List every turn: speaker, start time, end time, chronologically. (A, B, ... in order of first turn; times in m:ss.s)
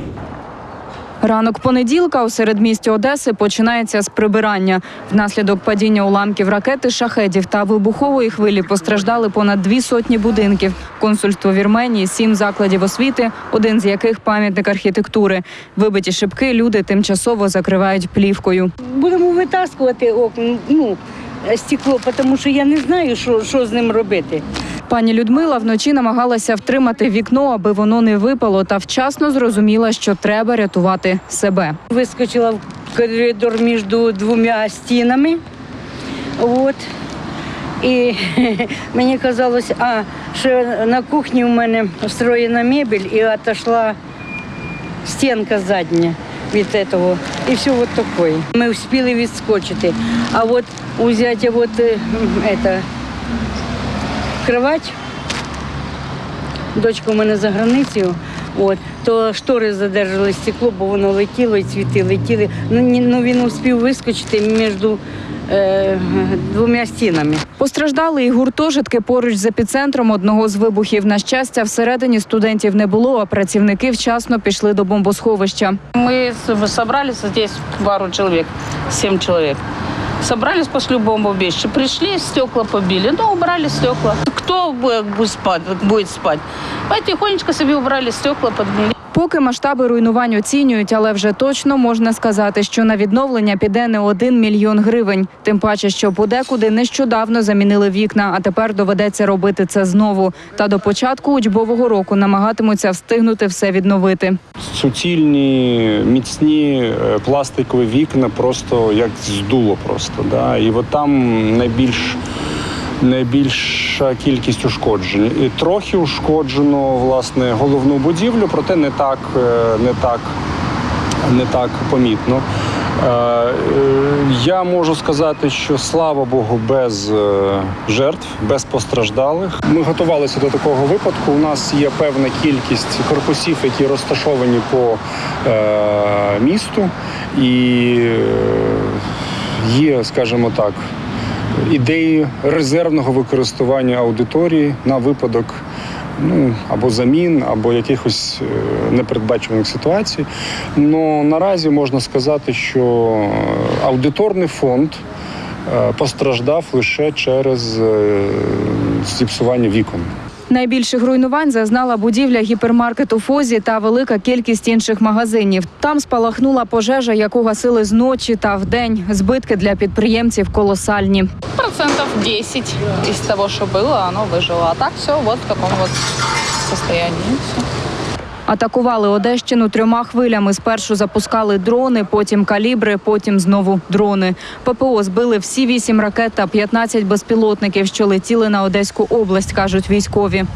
0:01.2-0:18.7 A
0:18.8-0:24.4 B
0:24.9-0:31.8 A
0:31.9-0:35.4 B
0:36.4-0:36.8 B
0:37.8-0:44.0 B
0:45.0-0:52.8 B
0:54.4-0:55.0 B
0:56.8-1:07.4 B
1:07.6-1:15.8 A
1:16.0-1:19.6 C
1:20.2-1:28.9 C
1:29.1-1:44.4 A
1:44.7-1:52.2 D
1:53.0-2:00.3 D
2:01.3-2:02.4 D
2:03.0-2:19.0 D
2:19.6-2:20.8 D
2:21.6-2:25.6 D
2:26.2-2:35.0 D
2:35.7-2:40.1 D
2:40.5-2:51.3 A
2:51.6-2:56.0 C
2:56.7-2:57.6 C
2:58.5-3:10.5 A